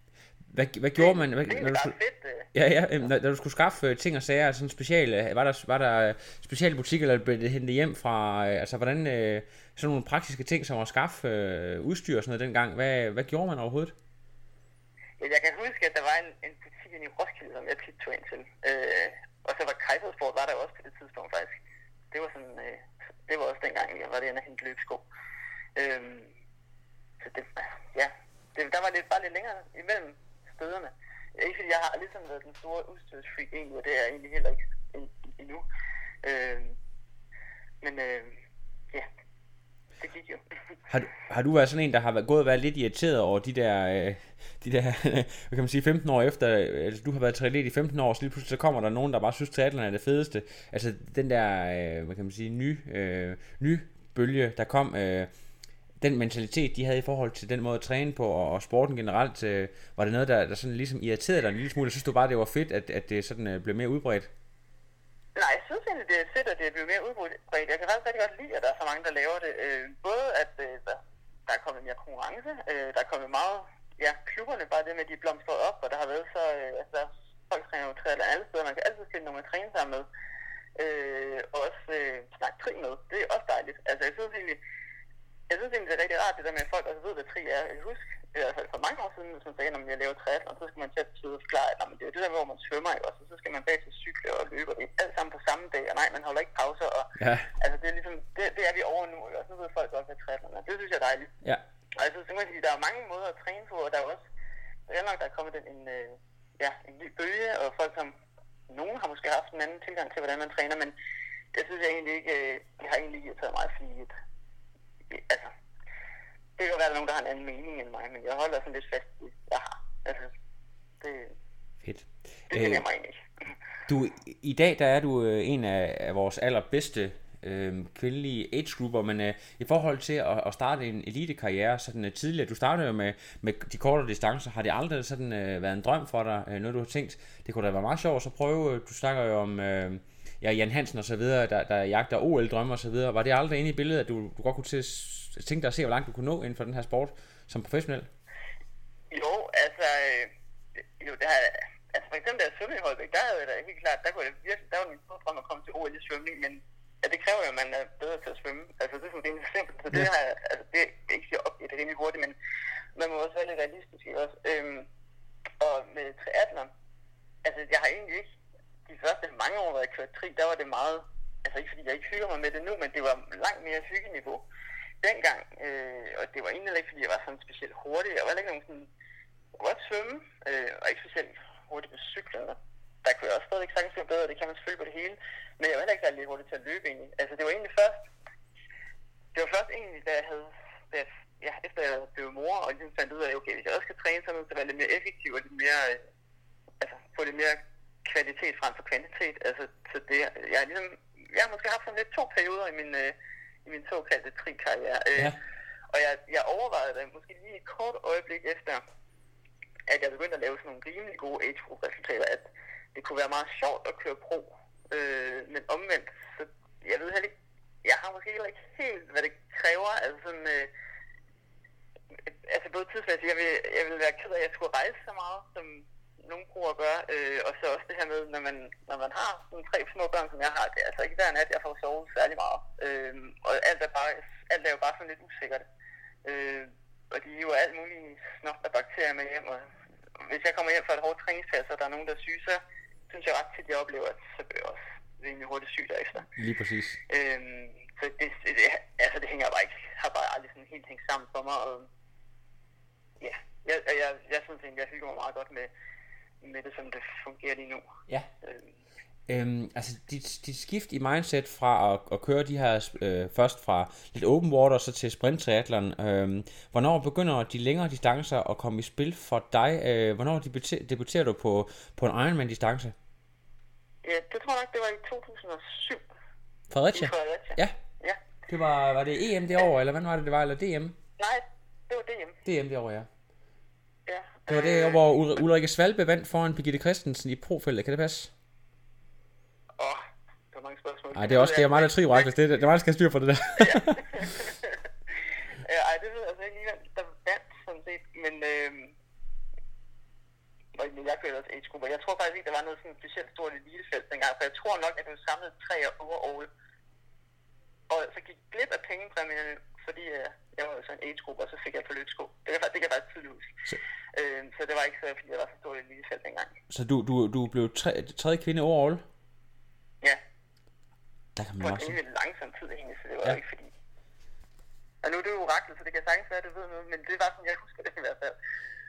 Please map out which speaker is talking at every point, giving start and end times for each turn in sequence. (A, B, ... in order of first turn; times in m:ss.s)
0:00.5-0:02.0 A
0:01.0-0:02.5 B
0:02.5-0:14.0 A
0:15.2-0:21.6 B
0:22.1-0:25.1 B
0:25.8-0:26.3 B
0:27.2-0:35.6 B
0:36.2-0:36.8 B
0:37.8-0:38.4 B
0:40.0-0:40.4 B
0:40.9-0:55.3 A
0:56.0-1:04.3 A
1:05.4-1:20.1 B
1:20.8-1:24.6 B
1:25.5-1:41.3 B
1:37.2-1:37.5 A
1:42.0-1:44.2 B
1:44.9-1:48.1 B
1:48.7-1:51.0 B
1:51.5-1:54.1 B
1:55.1-1:55.5 B
1:56.6-2:00.3 B
2:01.0-2:01.3 B
2:01.8-2:02.8 A
2:02.5-2:03.2 B
2:03.9-2:28.1 A
2:29.1-2:30.3 B
2:31.0-2:42.4 B
2:43.0-2:44.9 B
2:45.6-2:46.7 B
2:47.4-2:48.3 B
2:48.9-2:54.4 B
2:55.0-2:58.9 B
2:59.6-3:08.1 B
3:09.4-3:16.0 B
3:16.8-3:23.1 B
3:23.7-3:25.3 B
3:25.9-3:28.8 B
3:29.9-3:40.7 B
3:42.5-3:55.6 B
3:56.2-3:59.7 B
4:00.2-4:06.3 B
4:06.4-4:07.0 A
4:07.1-4:11.9 B
4:13.2-4:15.7 B
4:16.4-4:17.9 B
4:18.4-4:18.7 B
4:19.3-4:33.0 A
4:34.0-4:36.0 B
4:36.7-4:37.7 A
4:36.9-4:38.2 B
4:38.5-4:41.0 A
4:41.2-4:42.4 B
4:42.4-4:43.1 A
4:44.1-4:45.0 B
4:44.5-4:48.3 A
4:49.8-4:52.3 B
4:51.1-4:54.3 A
4:53.6-4:54.8 B
4:55.6-4:59.0 B
5:00.8-5:06.5 B
5:07.9-5:13.6 B
5:14.1-5:16.6 B
5:16.7-5:19.0 A
5:21.4-5:22.0 A
5:21.6-5:23.7 B
5:25.0-5:28.4 B